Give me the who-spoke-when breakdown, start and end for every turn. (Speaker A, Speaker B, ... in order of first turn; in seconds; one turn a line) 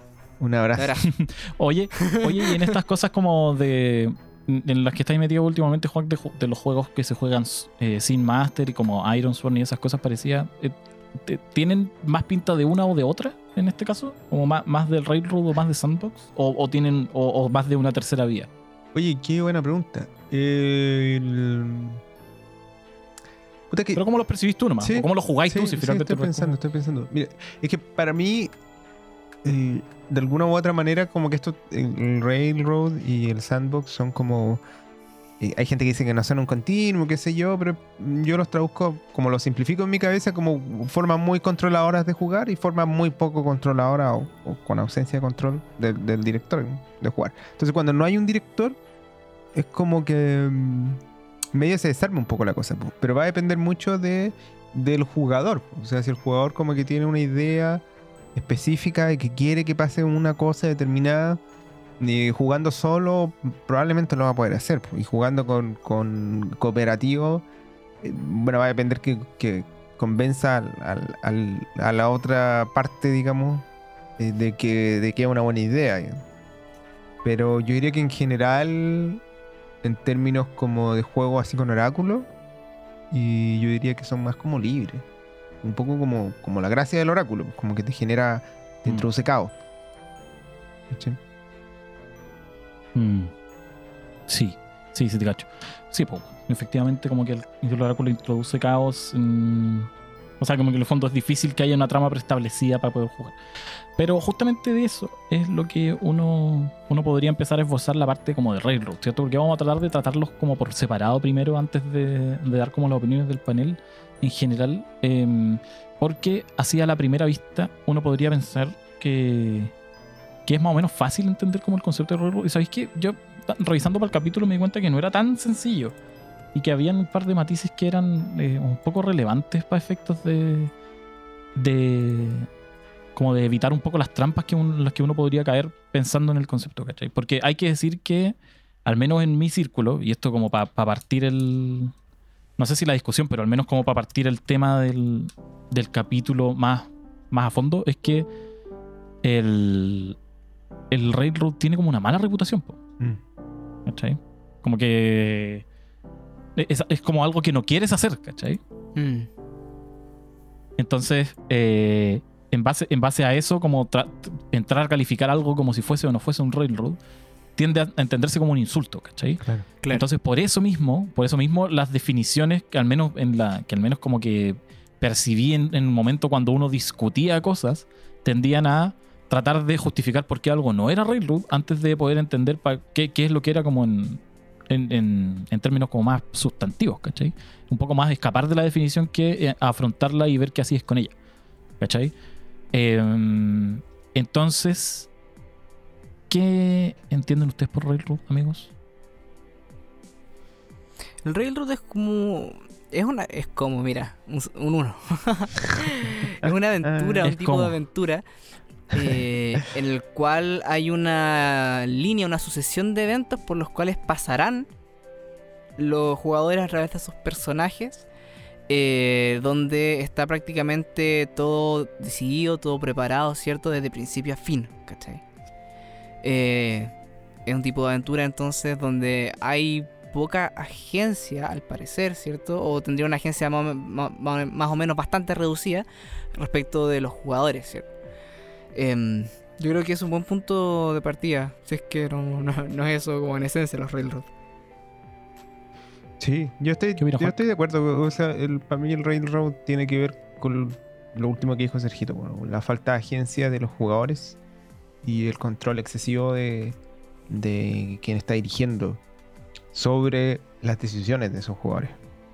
Speaker A: 0.4-1.0
Speaker B: 0.8-1.1
Speaker C: 1.1-18.5
Speaker B: 2.0-2.6
Speaker A: 18.9-22.0
Speaker A: 23.7-24.0
Speaker C: 23.9-26.6
Speaker A: 24.8-28.5
Speaker A: 29.4-34.6
Speaker A: 35.4-48.8
Speaker A: 49.5-51.0
Speaker A: 51.5-57.8
Speaker A: 58.4-61.4
Speaker A: 62.0-67.4
Speaker A: 68.0-73.7
Speaker A: 74.2-76.2
Speaker A: 77.2-79.2
Speaker A: 79.8-82.3
Speaker A: 83.1-85.0
Speaker A: 85.6-89.5
Speaker A: 90.9-91.2
Speaker C: 93.0-93.3
Speaker C: 94.3-103.4
Speaker C: 104.0-119.7
Speaker C: 120.5-126.0
Speaker C: 126.5-130.7
Speaker C: 131.6-132.5
Speaker C: 133.2-141.9
Speaker C: 142.6-148.3
Speaker C: 149.2-150.2
Speaker C: 150.9-152.8
Speaker C: 153.9-155.7
Speaker C: 156.6-158.6
Speaker B: 159.0-159.3
Speaker C: 160.8-167.0
Speaker C: 167.6-191.1
Speaker C: 191.8-192.1
Speaker C: 192.7-195.1
Speaker C: 196.3-198.7
Speaker B: 201.2-208.2
Speaker A: 206.4-207.2
Speaker C: 207.2-207.8
Speaker B: 208.9-214.7
Speaker B: 215.8-218.1
Speaker B: 218.7-225.2
Speaker B: 226.2-226.9
Speaker B: 227.5-237.9
Speaker B: 238.7-244.3
Speaker A: 246.2-254.4
Speaker C: 247.0-247.4
Speaker A: 255.0-256.8
Speaker A: 257.3-259.0
Speaker A: 259.7-262.0